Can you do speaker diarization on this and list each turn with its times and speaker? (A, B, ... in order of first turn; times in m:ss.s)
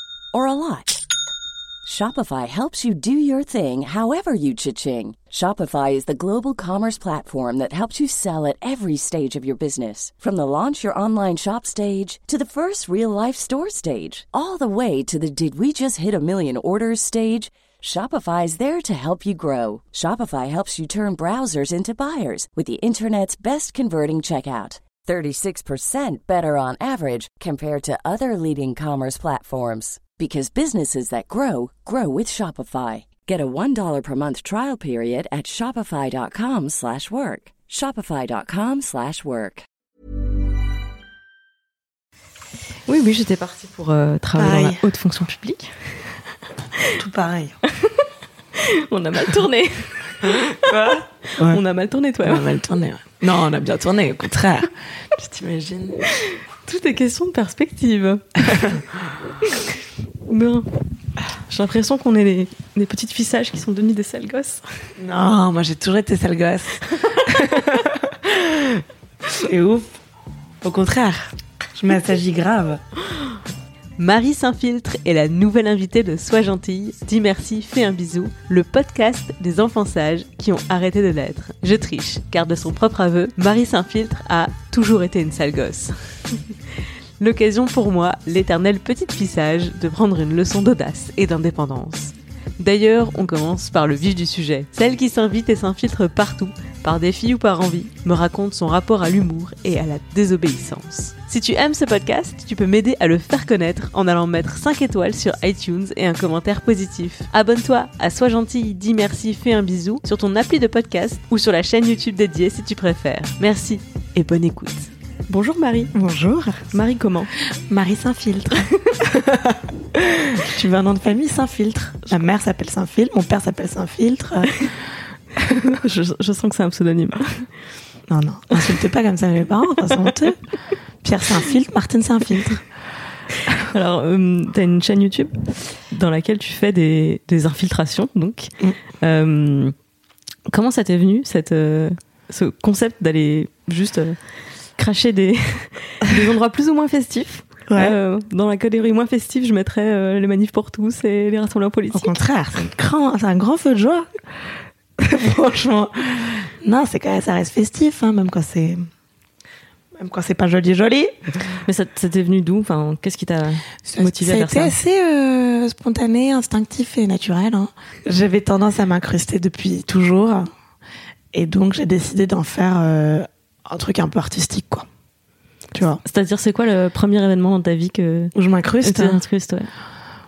0:00.3-0:01.0 A
0:01.8-0:39.6 A
0:42.9-0:45.7 B
0:44.4-0:44.8 C
0:47.0-0:47.6 C
0:48.6-0:50.8 B
0:50.4-0:51.6 C
0:51.3-0:52.5 B
0:52.2-0:56.1 C
0:56.6-0:58.7 B
0:58.5-0:58.8 C
1:00.3-1:00.7 B
1:01.5-1:04.6 B
1:05.0-1:10.0 C
1:10.6-1:12.8 C
1:14.0-1:26.0 B
1:27.2-1:55.9 B
1:55.9-1:56.7 C
1:56.7-1:57.3 B
1:57.7-2:04.7 C
2:05.4-2:05.8 C
2:05.7-2:07.5 B
2:08.1-2:10.4 C
2:11.0-2:12.6 C
2:13.6-2:19.8 B
2:20.5-2:32.1 B
2:27.7-2:28.0 C
2:31.9-2:34.1 C
2:35.0-2:38.9 C
2:40.0-2:41.1 C
2:41.6-2:44.8 B
2:43.9-2:50.5 C
2:51.3-2:54.9 C
2:55.7-2:56.0 C
2:56.0-2:59.7 B
2:58.4-2:59.2 C